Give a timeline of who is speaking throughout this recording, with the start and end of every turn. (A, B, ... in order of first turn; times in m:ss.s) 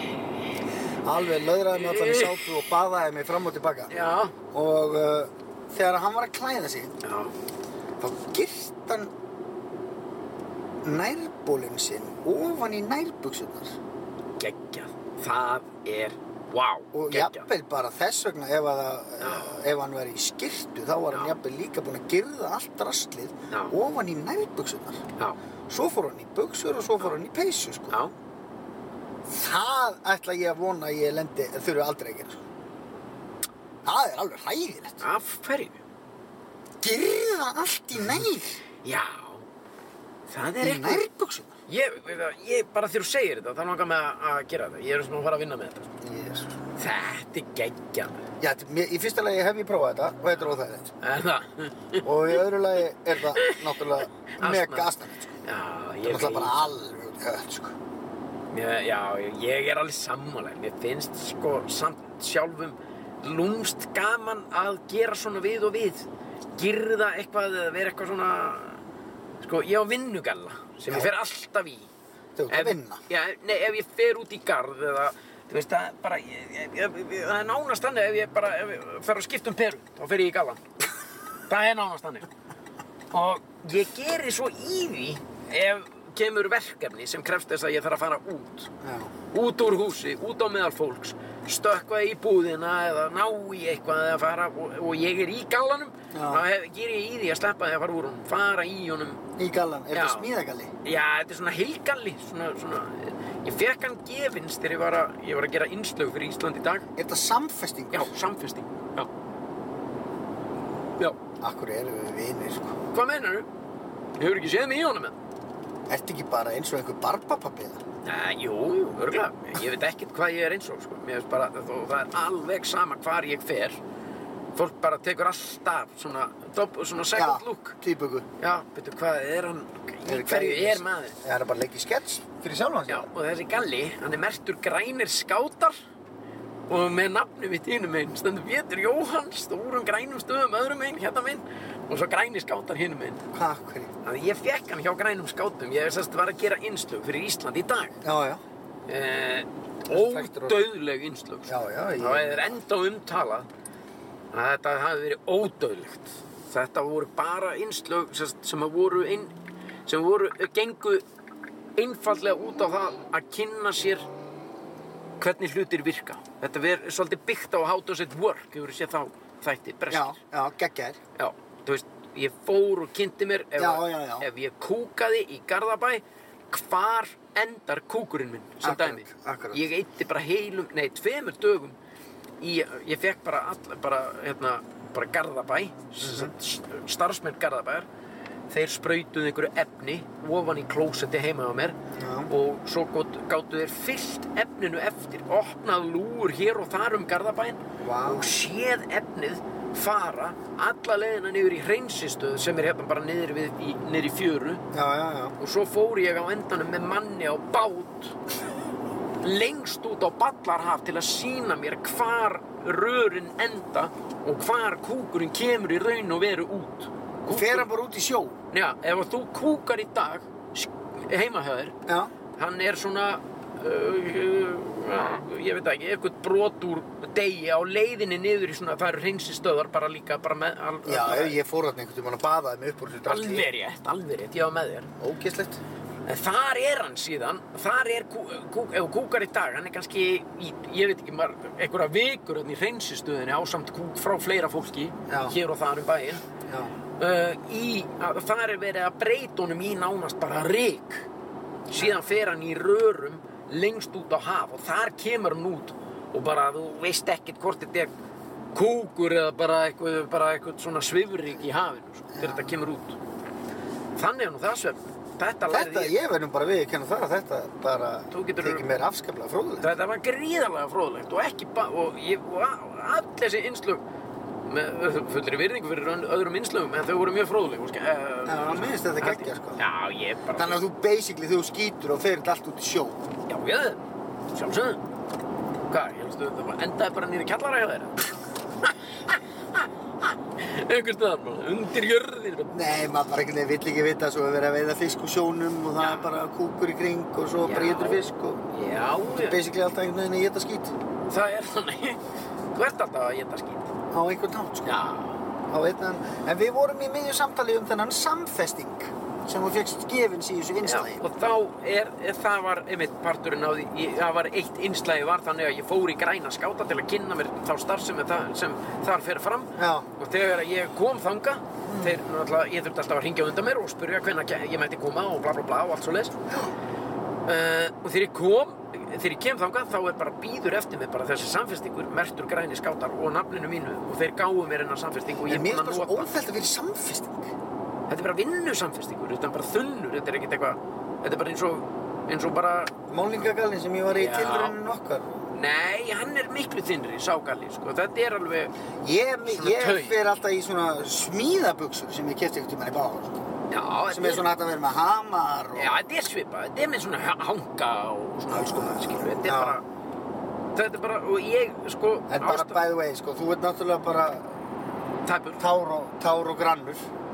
0:01.0-0:03.9 A
0:01.7-0:02.5 B
0:03.9-0:04.3 B
0:04.5-0:07.0 A
0:07.0-0:07.3 B
0:08.0-0:09.1 A
0:10.8-0:13.8 A
0:14.4-0:17.5 B
0:16.9-0:25.0 A
0:19.2-0:19.6 B
0:21.1-0:21.4 B
0:25.7-0:28.0 A
0:29.3-0:32.4 A
0:33.8-0:35.0 A
0:35.0-0:35.8 B
0:36.8-0:38.6 A
0:38.8-0:39.4 B
0:40.3-0:41.1 B
0:40.6-0:41.5 A
0:41.7-0:45.9 B
0:46.0-0:46.5 A
0:46.8-0:48.2 B
0:48.4-0:50.9 A
0:51.0-0:52.4 B
0:52.0-0:55.3 A
0:54.4-0:54.9 B
0:55.4-0:56.7 B
0:56.0-0:57.8 A
0:58.5-1:08.8 B
1:09.4-1:11.9 B
1:12.4-1:13.0 A
1:12.5-1:20.6 B
1:21.5-1:22.3 B
1:23.1-1:28.7 B
1:28.8-1:29.1 A
1:29.3-1:39.2 B
1:36.1-1:36.4 A
1:39.4-1:40.7 A
1:39.9-1:40.3 B
1:40.8-1:46.8 B
1:47.0-1:48.1 A
1:47.9-1:49.1 B
1:51.4-1:52.8 A
1:52.9-1:53.5 B
1:54.2-1:55.2 B
1:55.9-1:57.8 A
1:58.0-2:03.8 B
2:04.6-2:07.8 B
2:07.1-2:08.3 A
2:08.4-2:11.2 B
2:10.0-2:13.1 A
2:12.9-2:15.8 B
2:16.7-2:23.2 B
2:23.3-2:23.9 A
2:24.0-2:28.0 B
2:28.0-2:28.4 A
2:28.9-2:33.5 B
2:29.9-2:30.6 A
2:31.5-2:32.6 A
2:34.3-2:39.3 B
2:39.9-2:41.0 B
2:41.8-2:44.1 B
2:45.2-2:50.2 B
2:49.9-2:51.0 A
2:51.2-3:01.8 B
2:53.6-2:54.3 A
2:58.6-2:59.6 A
3:02.4-3:07.9 B
3:06.0-3:06.3 A
3:08.5-3:11.8 B
3:11.9-3:12.3 A
3:12.3-3:24.6 B
3:17.8-3:18.3 A
3:24.7-3:25.4 A
3:25.4-3:28.2 B
3:29.2-3:37.7 B
3:37.3-3:38.4 A
3:38.5-3:41.8 B
3:41.9-3:42.1 A
3:42.4-3:51.4 B
3:50.9-3:53.5 A
3:53.1-3:54.9 B
3:55.0-3:55.6 A
3:56.1-4:06.2 B
4:05.1-4:05.4 A
4:06.5-4:06.7 A
4:07.0-4:11.1 B
4:11.7-4:17.9 B
4:11.8-4:12.1 A
4:18.5-4:23.0 B
4:22.1-4:22.6 A
4:24.0-4:26.0 B
4:25.5-4:29.7 A
4:28.1-4:28.7 B
4:29.6-4:33.8 B
4:34.5-4:40.6 B
4:38.3-4:39.6 A
4:40.4-4:43.0 A
4:43.3-4:44.8 B
4:45.7-4:48.0 B
4:48.6-4:52.5 B
4:52.5-4:58.4 A
4:55.8-4:56.1 B
4:57.4-4:59.4 B
4:59.1-5:00.8 A
5:01.1-5:02.0 B
5:02.5-5:03.7 B
5:03.9-5:04.8 A
5:04.7-5:05.2 B
5:05.5-5:11.0 A
5:10.6-5:26.1 B
5:19.6-5:19.9 A
5:21.7-5:22.0 A
5:27.2-5:36.1 B
5:35.3-5:37.3 A
5:37.9-5:42.7 B
5:42.9-5:45.2 A
5:43.9-5:44.6 B
5:45.3-5:48.5 B
5:48.8-5:53.2 A
5:49.3-5:50.0 B
5:53.5-5:54.3 B
5:53.9-5:55.8 A
5:55.6-5:59.6 B
5:58.3-5:59.6 A
6:00.5-6:02.6 B
6:02.1-6:04.4 A
6:05.0-6:05.4 B
6:05.4-6:06.9 A